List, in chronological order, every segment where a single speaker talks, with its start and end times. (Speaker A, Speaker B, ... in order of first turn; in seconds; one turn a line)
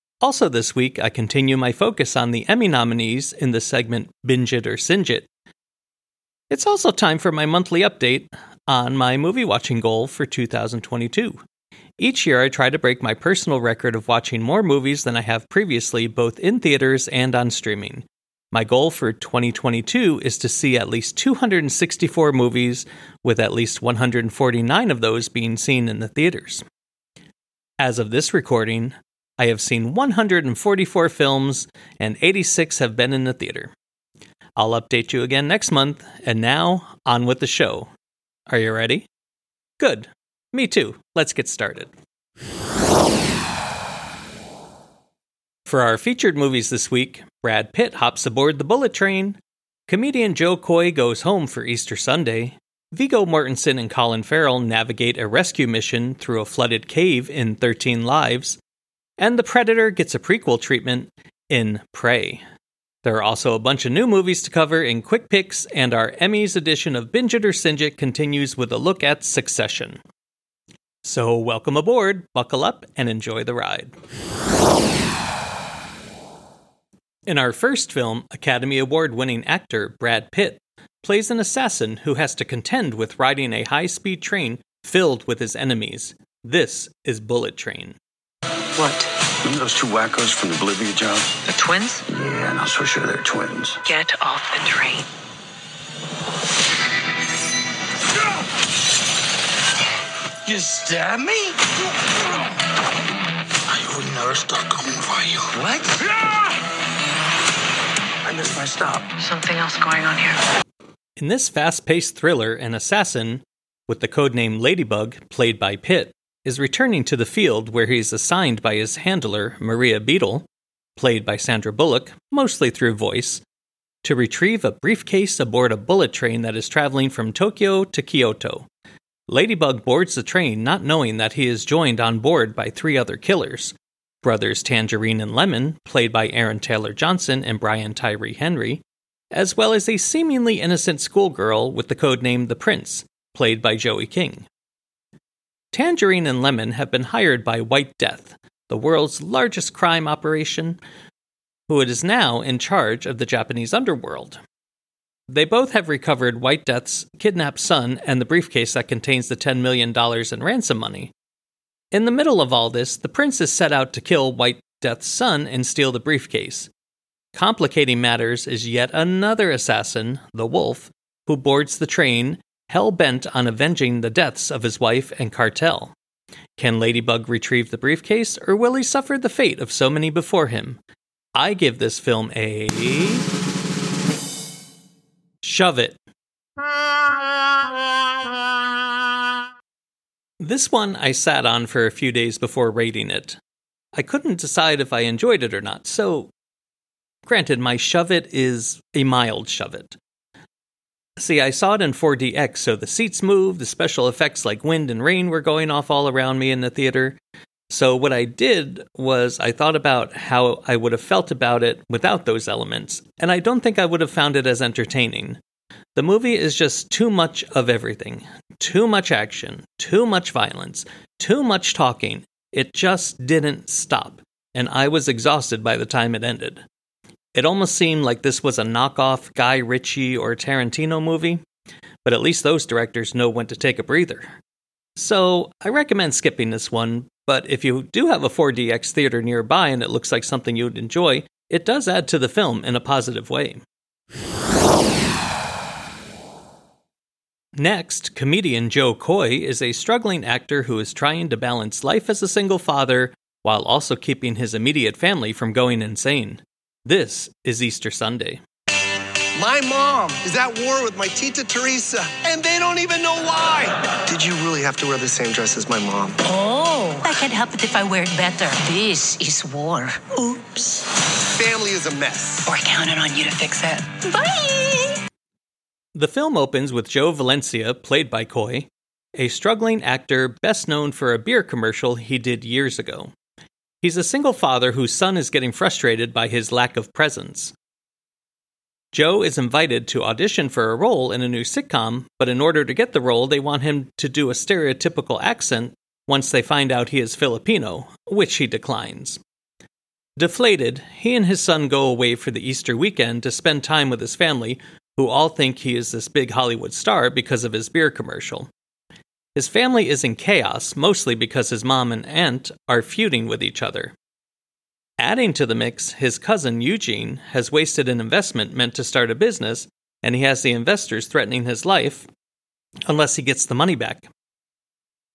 Speaker A: 0.2-5.3
Speaker A: 6.5-11.4
Speaker A: 12.0-26.6
Speaker A: 27.8-33.7
Speaker A: 34.6-37.9
Speaker A: 38.5-39.0
Speaker A: 39.8-41.9
Speaker A: 45.6-58.6
Speaker A: 59.2-62.4
Speaker A: 63.0-70.0
Speaker A: 71.0-73.9
Speaker A: 77.3-88.0
Speaker B: 88.8-89.1
Speaker C: 89.4-91.3
Speaker B: 91.5-92.0
Speaker C: 92.0-93.8
Speaker B: 93.8-95.0
Speaker C: 100.5-101.2
Speaker C: 103.7-106.0
Speaker C: 108.2-109.0
Speaker B: 109.3-110.4
Speaker A: 111.2-123.4
Speaker A: 124.0-128.7
Speaker A: 129.3-144.5
Speaker A: 145.7-150.8
Speaker A: 151.7-154.4
Speaker A: 155.3-161.1
Speaker A: 161.9-166.7
Speaker A: 167.3-175.9
Speaker A: 176.6-180.8
Speaker A: 181.3-183.3
Speaker A: 185.4-186.0
Speaker A: 190.4-193.4
Speaker A: 193.9-196.3
Speaker A: 197.2-199.9
Speaker A: 201.2-207.2
Speaker A: 207.7-215.4
Speaker A: 215.9-226.6
Speaker A: 227.3-231.4
Speaker A: 232.0-234.4
Speaker A: 234.9-243.6
Speaker A: 247.5-258.4
Speaker D: 259.3-266.2
Speaker E: 266.3-270.7
Speaker D: 271.4-272.5
Speaker E: 272.4-274.9
Speaker A: 275.9-283.1
Speaker A: 283.8-287.5
Speaker A: 288.9-299.2
Speaker A: 300.2-308.5
Speaker A: 309.3-313.9
Speaker A: 315.0-322.1
Speaker A: 322.9-324.1